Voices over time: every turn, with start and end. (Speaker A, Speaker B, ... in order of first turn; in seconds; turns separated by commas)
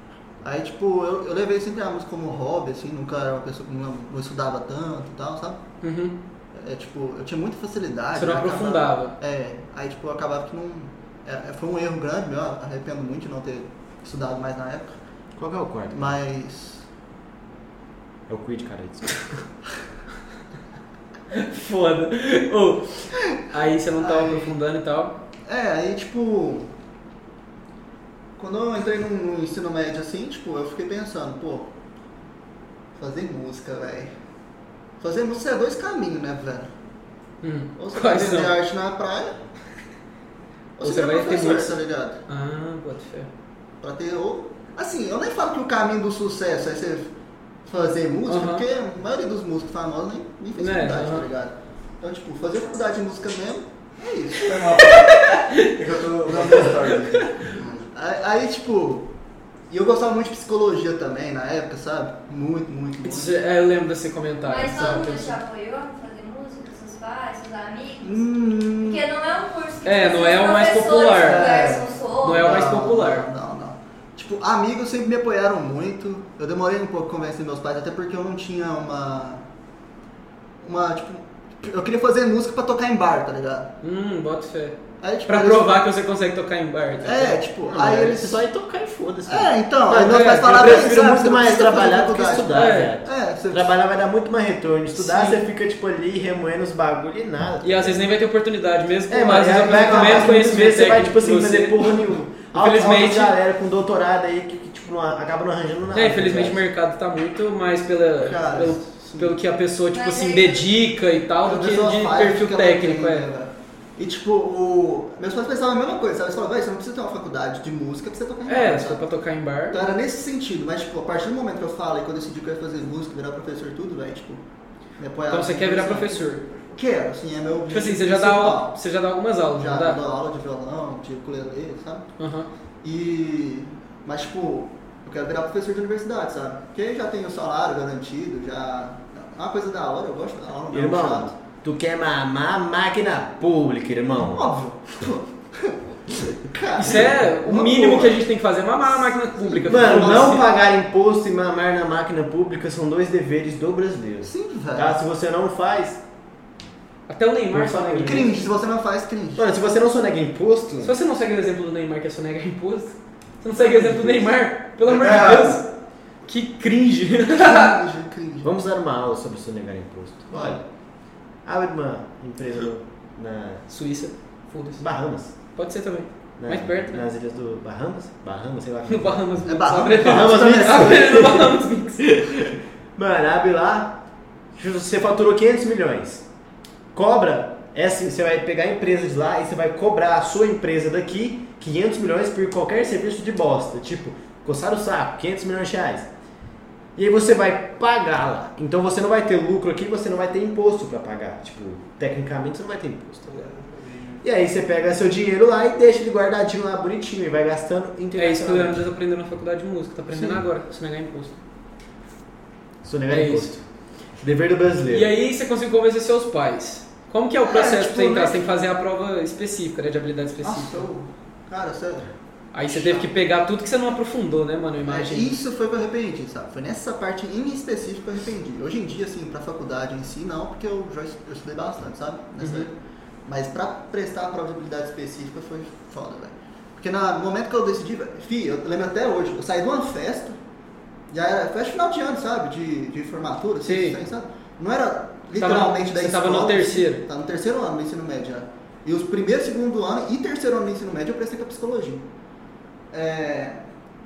Speaker A: 0.4-5.6, Speaker B: 5.8-6.2, Speaker A: 6.5-14.9, Speaker B: 8.2-9.2, Speaker C: 15.4-16.1, Speaker A: 15.9-16.8, Speaker C: 18.3-19.4, Speaker B: 21.3-22.9, Speaker B: 23.5-25.2, Speaker A: 23.9-24.6, Speaker A: 25.5-26.7, Speaker A: 28.4-31.7, Speaker A: 33.0-34.1, Speaker A: 35.0-36.7, Speaker B: 37.4-38.5, Speaker A: 37.8-39.4, Speaker A: 40.8-42.2, Speaker B: 40.8-43.3, Speaker A: 43.8-47.1, Speaker A: 47.7-54.6, Speaker B: 48.3-48.7, Speaker B: 50.6-51.3, Speaker D: 54.4-57.3, Speaker B: 54.8-55.7, Speaker A: 56.3-57.0, Speaker B: 56.9-57.4, Speaker A: 57.5-59.1, Speaker A: 59.7-63.4, Speaker B: 63.0-65.4, Speaker E: 64.5-68.3, Speaker A: 64.7-65.1, Speaker A: 68.0-69.0, Speaker E: 68.8-72.5, Speaker B: 69.8-73.3, Speaker A: 71.2-79.4, Speaker A: 80.6-83.7, Speaker B: 83.8-87.4, Speaker A: 85.0-85.8, Speaker A: 87.0-88.4, Speaker C: 87.7-98.0, Speaker A: 89.3-93.7, Speaker B: 90.0-90.4, Speaker B: 92.5-92.9, Speaker B: 95.0-95.4, Speaker B: 97.6-102.0, Speaker C: 99.1-106.6, Speaker A: 99.5-100.4, Speaker B: 102.5-103.3, Speaker B: 105.9-113.3, Speaker A: 108.2-109.4, Speaker E: 109.9-110.7, Speaker A: 111.4-119.0, Speaker B: 118.5-119.8, Speaker A: 119.7-124.4, Speaker A: 125.0-128.7, Speaker B: 125.3-126.6, Speaker B: 127.7-130.0, Speaker A: 129.6-132.1, Speaker B: 132.2-132.5, Speaker A: 132.8-141.3, Speaker C: 140.7-144.5, Speaker A: 144.2-148.2, Speaker B: 146.8-150.5, Speaker A: 149.4-150.5, Speaker C: 149.7-156.0, Speaker A: 154.2-155.0, Speaker B: 157.1-158.4, Speaker C: 157.5-158.4, Speaker A: 158.0-159.4, Speaker C: 159.4-160.9, Speaker B: 160.8-165.7, Speaker C: 163.6-164.3, Speaker D: 164.8-165.6, Speaker B: 166.3-167.8, Speaker A: 167.4-168.5, Speaker C: 168.4-170.6, Speaker A: 170.3-170.6, Speaker C: 171.4-173.7, Speaker B: 173.7-174.9, Speaker C: 174.8-175.3, Speaker B: 175.6-177.1, Speaker C: 176.4-179.3, Speaker B: 178.9-182.3, Speaker A: 179.4-181.3, Speaker C: 179.9-184.0, Speaker C: 184.5-186.2, Speaker C: 186.9-196.1, Speaker C: 197.0-203.5, Speaker D: 203.3-204.2, Speaker C: 204.2-208.8, Speaker B: 208.2-211.4, Speaker A: 210.1-210.4, Speaker C: 212.8-213.6, Speaker B: 213.1-213.5, Speaker C: 214.2-215.1, Speaker B: 214.9-220.9, Speaker A: 217.4-218.4, Speaker A: 220.4-222.1, Speaker B: 222.5-225.3, Speaker A: 222.7-223.1, Speaker A: 224.9-232.7, Speaker B: 232.4-232.7, Speaker A: 233.3-240.4, Speaker A: 241.1-252.1, Speaker B: 243.6-244.0, Speaker B: 245.4-247.0, Speaker A: 252.9-253.6